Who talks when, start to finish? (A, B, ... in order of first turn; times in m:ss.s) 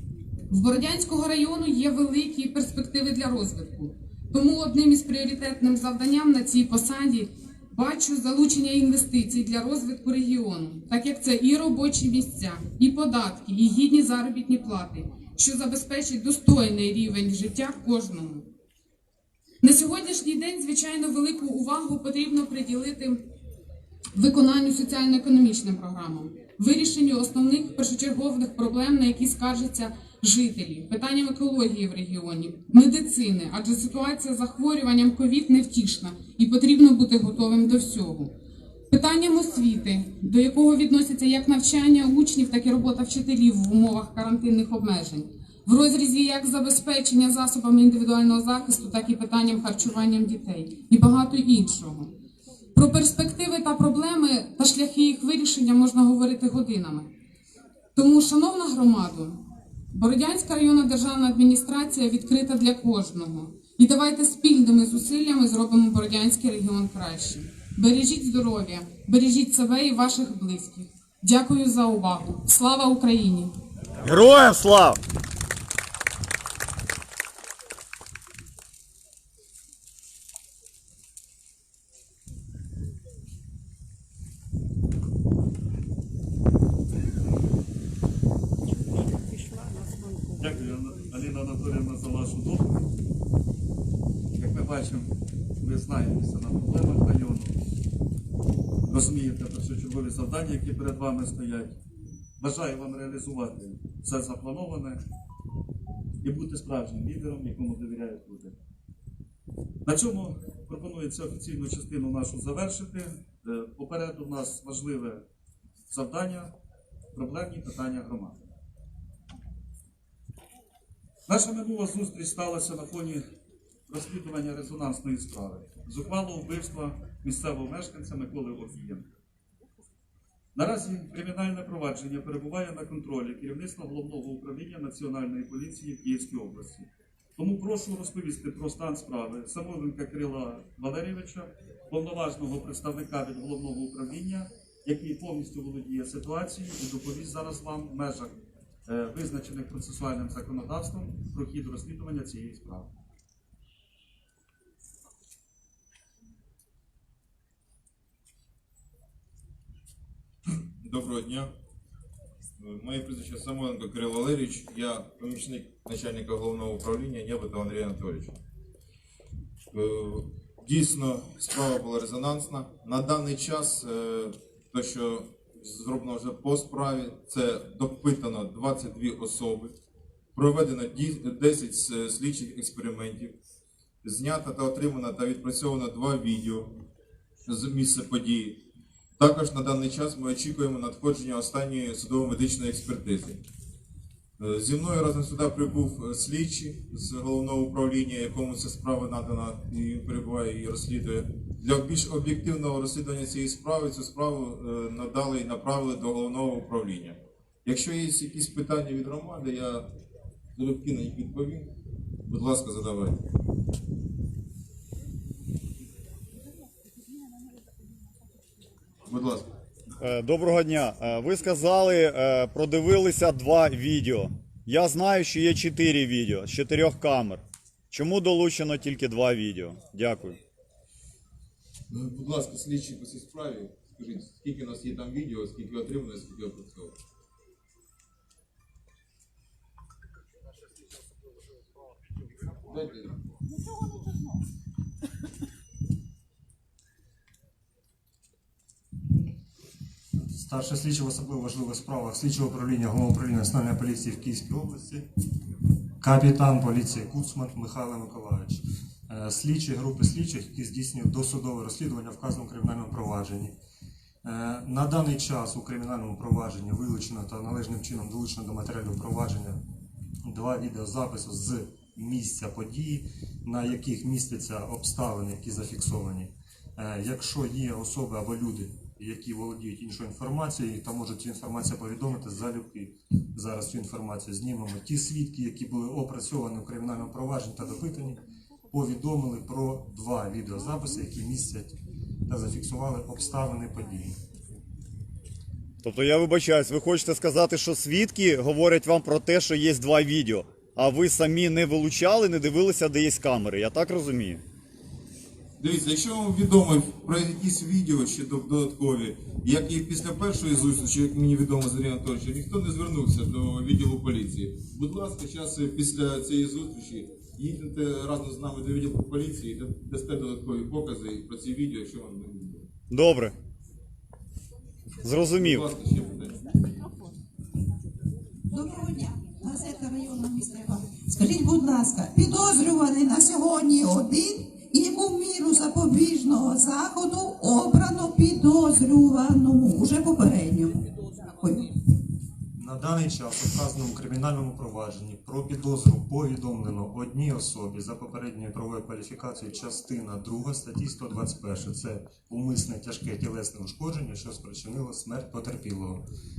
0:00.5-0:18.5 A
0:19.6-0:23.2 A
0:24.1-0:38.3 A
0:38.9-0:52.1 A
0:52.7-0:57.1 A
0:57.9-1:13.5 A
1:14.0-1:15.0 B
1:30.4-1:32.9 C
1:34.4-1:37.6 C
1:38.9-1:41.8 C
1:42.4-1:45.0 C
1:46.2-1:48.6 C
1:49.8-1:55.2 C
1:55.9-1:56.5 C
1:57.1-1:58.4 C
2:01.3-2:03.2 C
2:03.9-2:09.1 C
2:10.5-2:32.9 C
2:40.5-2:41.5 D
2:42.6-2:48.4 D
2:49.7-2:59.7 D
3:00.3-3:03.3 D
3:04.0-3:06.7 D
3:07.4-3:08.6 D
3:09.2-3:13.4 D
3:14.4-3:29.9 D
3:30.5-3:31.7 D
3:32.2-3:33.2 D
3:39.0-3:39.5 D
3:40.0-3:50.4 B
3:51.9-3:57.0 D
4:02.6-4:03.2 D
4:10.2-4:15.1 E
4:16.0-4:23.6 E
4:24.2-4:29.6 E
4:30.2-4:51.7 E
4:52.3-4:54.2 E
4:55.8-5:04.4 B
5:05.6-5:22.7 D
5:22.9-5:23.3 B
5:25.0-5:25.6 B
5:25.3-5:26.5 D
5:28.5-5:41.7 F
5:42.6-5:56.0 E